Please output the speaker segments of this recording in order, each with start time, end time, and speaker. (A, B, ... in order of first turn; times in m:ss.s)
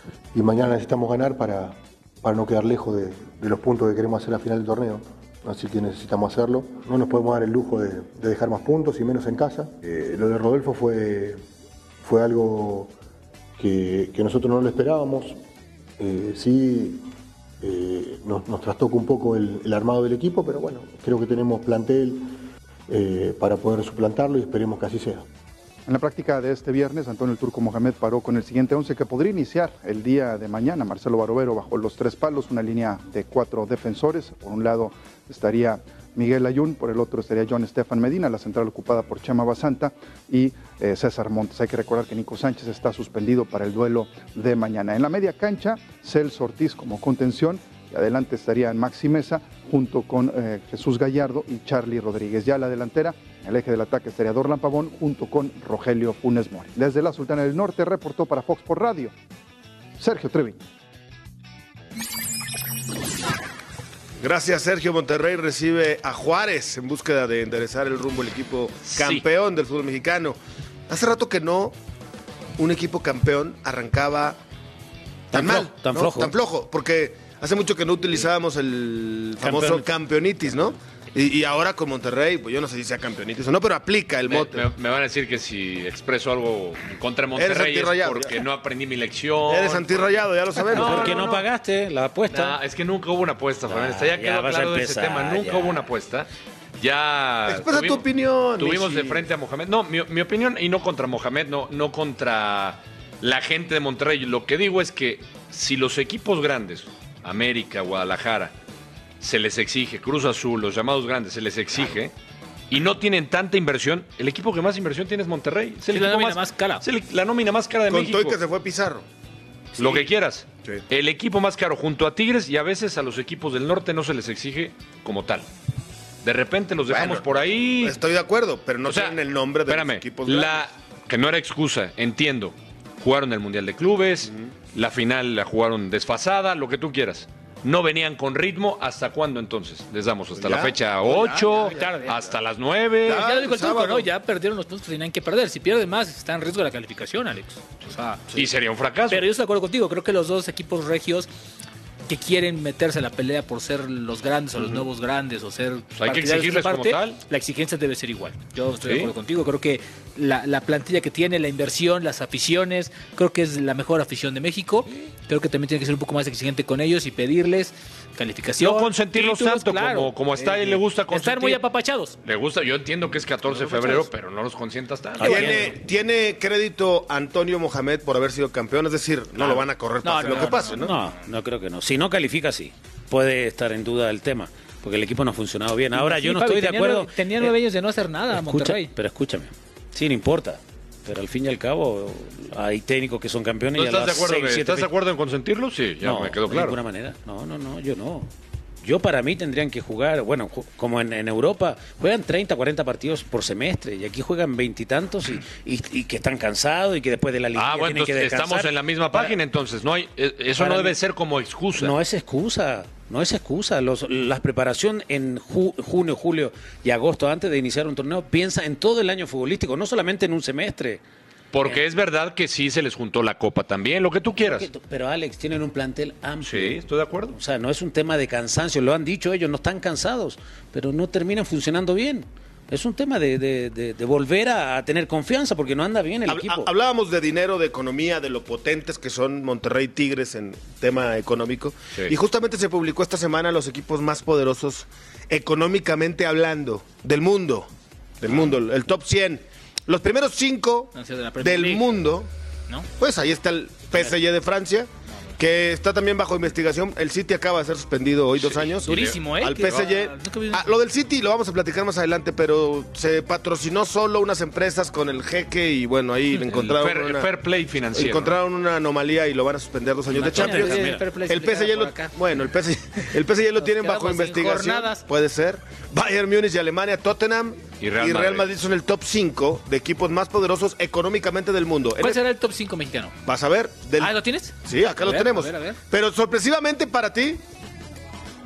0:00.3-0:11.4 A
0:12.0-0:12.9 A
0:13.6-0:15.4 A
0:16.0-0:17.0 A
0:17.6-0:22.3 A
0:22.9-0:25.2 A
0:25.9-0:59.1 B
1:00.0-1:00.6 B
1:04.2-1:10.4 C
1:08.9-1:09.2 D
1:10.9-1:11.7 C
1:12.6-1:14.4 C
1:15.3-1:16.3 E
1:15.3-1:24.6 C
1:19.4-1:19.9 E
1:24.2-1:31.4 D
1:27.4-1:28.4 C
1:29.5-1:31.4 C
1:30.7-1:32.6 E
1:32.3-1:36.3 D
1:33.7-1:35.9 E
1:36.8-1:38.0 D
1:37.5-1:39.2 C
1:38.6-1:48.5 D
1:49.2-1:52.1 D
1:52.7-1:58.4 D
1:55.9-1:56.8 F
1:57.9-1:59.0 C
1:59.8-2:00.0 C
1:59.8-2:05.5 D
2:06.2-2:08.0 D
2:06.9-2:07.2 C
2:07.8-2:10.7 C
2:08.8-2:23.2 D
2:20.4-2:21.8 C
2:21.4-2:22.1 F
2:23.0-2:24.1 C
2:23.1-2:28.2 F
2:28.3-2:29.2 D
2:29.1-2:31.3 F
2:32.1-2:52.2 F
2:35.9-2:37.2 D
2:38.8-2:39.1 D
2:48.6-2:51.6 D
2:52.2-2:55.6 D
2:53.5-2:54.0 F
2:55.2-2:55.8 E
2:55.2-3:01.0 C
3:00.0-3:01.0 F
3:00.8-3:07.5 E
3:05.9-3:08.9 F
3:08.3-3:14.9 E
3:13.7-3:16.8 D
3:16.0-3:18.3 E
3:18.8-3:29.4 E
3:27.5-3:32.0 D
3:30.6-3:31.0 E
3:31.7-3:41.0 E
3:41.5-3:44.7 D
3:44.4-3:56.7 E
3:46.4-3:47.4 D
3:56.3-4:07.7 C
4:08.2-4:12.3 C
4:10.9-4:12.0 F
4:13.0-4:27.3 C
4:18.4-4:19.8 D
4:18.8-4:20.6 F
4:26.5-4:28.4 D
4:27.9-4:42.2 C
4:30.1-4:32.1 F
4:30.2-4:31.1 E
4:33.6-4:35.0 F
4:37.8-4:38.5 D
4:42.0-4:43.2 F
4:43.2-4:47.4 C
4:44.0-4:45.8 F